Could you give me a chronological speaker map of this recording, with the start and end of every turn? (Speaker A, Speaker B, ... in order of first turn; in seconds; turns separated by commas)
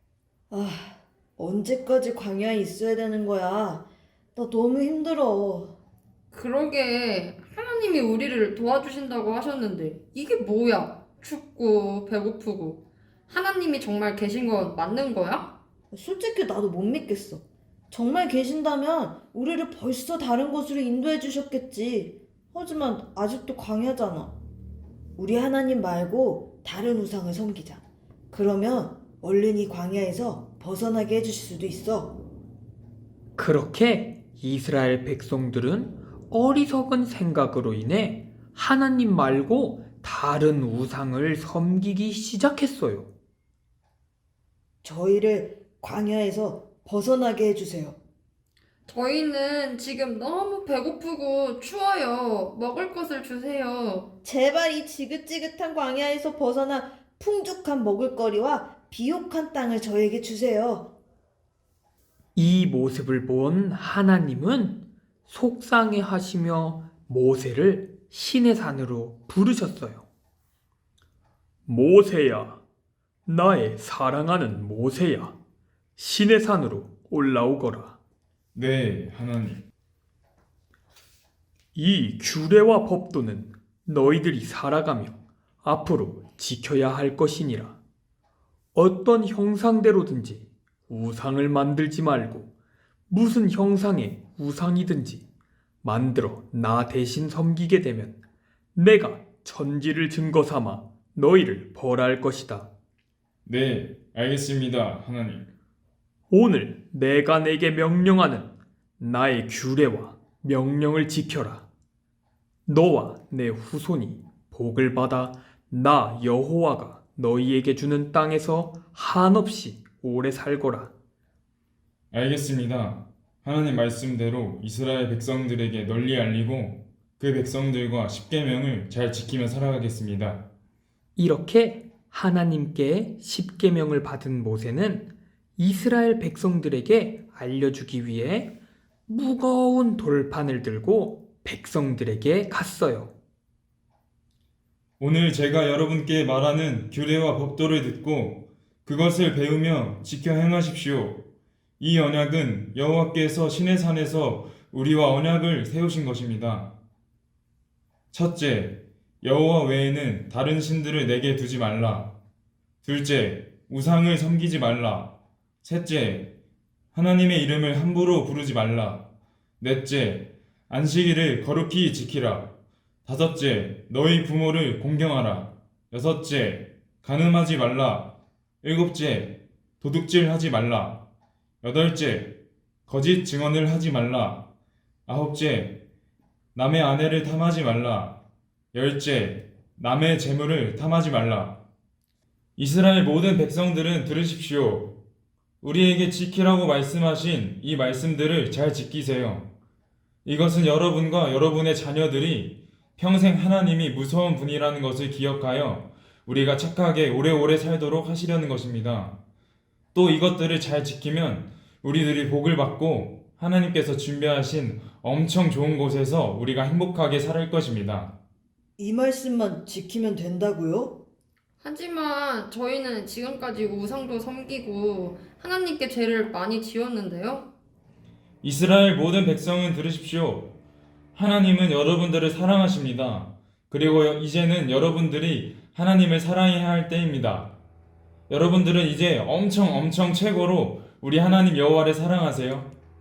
Speaker A: 0.5-5.8, Speaker B: 6.3-15.5, Speaker A: 15.9-24.4, Speaker A: 25.2-32.2, Speaker C: 33.4-43.1, Speaker A: 44.8-48.0, Speaker B: 48.9-54.1, Speaker A: 54.2-60.9, Speaker C: 62.4-70.0, Speaker C: 71.7-72.6, Speaker C: 73.3-75.3, Speaker C: 76.0-77.9, Speaker D: 78.5-79.7, Speaker C: 81.8-87.8, Speaker C: 88.8-92.5, Speaker C: 93.1-95.2, Speaker C: 95.8-98.2, Speaker C: 98.8-102.7, Speaker D: 103.5-105.5, Speaker C: 106.3-111.7, Speaker C: 112.7-120.9, Speaker D: 122.1-130.5, Speaker C: 131.2-138.5, Speaker C: 139.1-143.1, Speaker D: 145.0-151.2, Speaker D: 151.8-156.7, Speaker D: 158.1-162.2, Speaker D: 162.8-166.3, Speaker D: 166.9-169.1, Speaker D: 169.6-172.5, Speaker D: 173.1-181.1, Speaker D: 181.6-184.5, Speaker D: 185.1-185.8, Speaker D: 186.6-188.2, Speaker D: 188.7-191.6, Speaker D: 192.6-195.0, Speaker D: 195.6-199.5, Speaker D: 200.2-209.2, Speaker D: 209.9-218.2, Speaker A: 218.8-221.0, Speaker B: 221.6-227.5, Speaker D: 228.4-230.5, Speaker D: 231.2-237.5, Speaker D: 238.3-242.7